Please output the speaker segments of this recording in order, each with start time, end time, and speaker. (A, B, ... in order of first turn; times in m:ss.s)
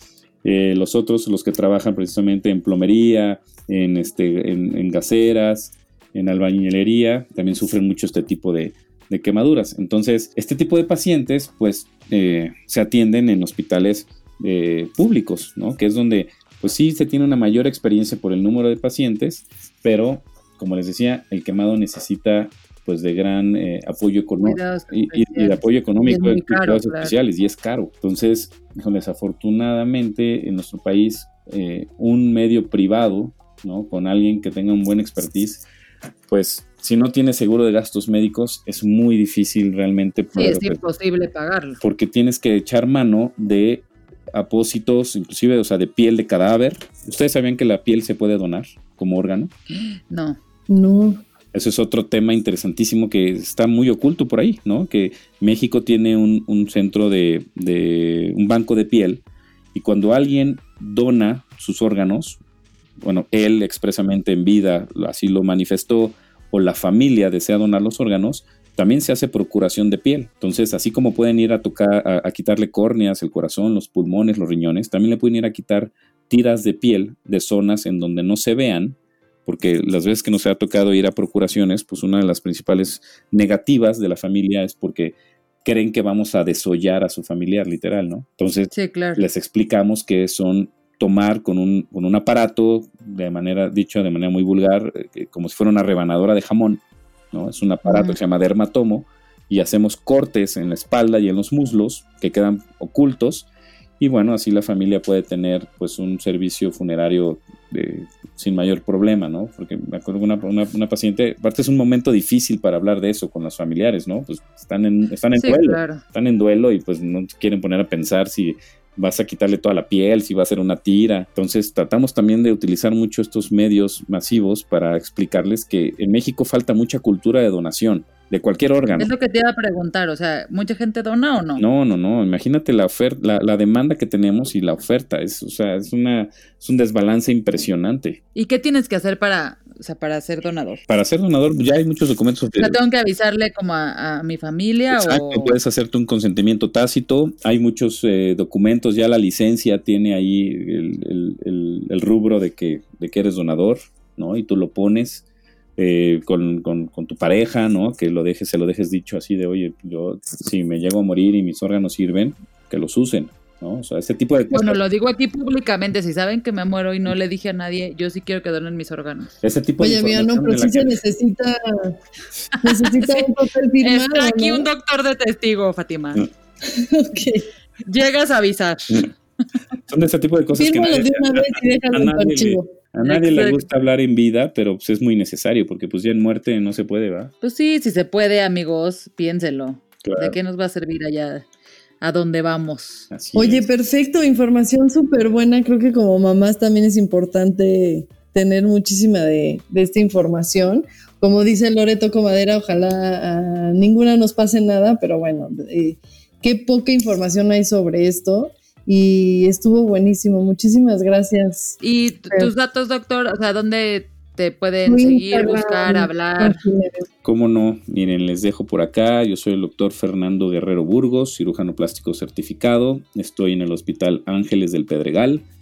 0:00.4-0:35.6 A
0:24.4-0:27.1 B
0:36.3-0:40.8 A
0:40.3-0:41.8 B
0:41.8-0:49.5 A
0:49.7-0:50.4 B
0:50.7-0:51.2 C
0:51.5-0:59.2 A
0:59.7-1:02.4 A
1:03.0-1:36.8 A
1:28.7-1:29.2 B
1:37.3-1:43.5 A
1:37.8-1:38.2 B
1:44.0-2:09.1 A
1:55.4-1:56.0 B
2:09.0-2:11.6 B
2:11.6-2:18.2 A
2:18.3-2:20.8 B
2:20.9-2:22.8 A
2:22.6-2:25.6 B
2:24.9-2:35.2 A
2:35.8-2:44.8 A
2:44.5-2:49.3 B
2:49.4-2:50.9 A
2:49.8-2:52.0 C
2:52.5-2:56.2 B
2:52.6-2:54.7 C
2:56.6-2:57.5 C
2:57.8-2:59.1 B
2:59.9-3:07.3 A
3:00.6-3:02.7 C
3:03.0-3:03.6 B
3:07.4-3:11.4 B
3:10.0-3:10.4 A
3:12.0-3:13.1 B
3:13.1-3:13.7 A
3:13.3-3:31.8 C
3:31.8-3:36.6 B
3:34.8-3:37.0 C
3:37.2-3:45.4 A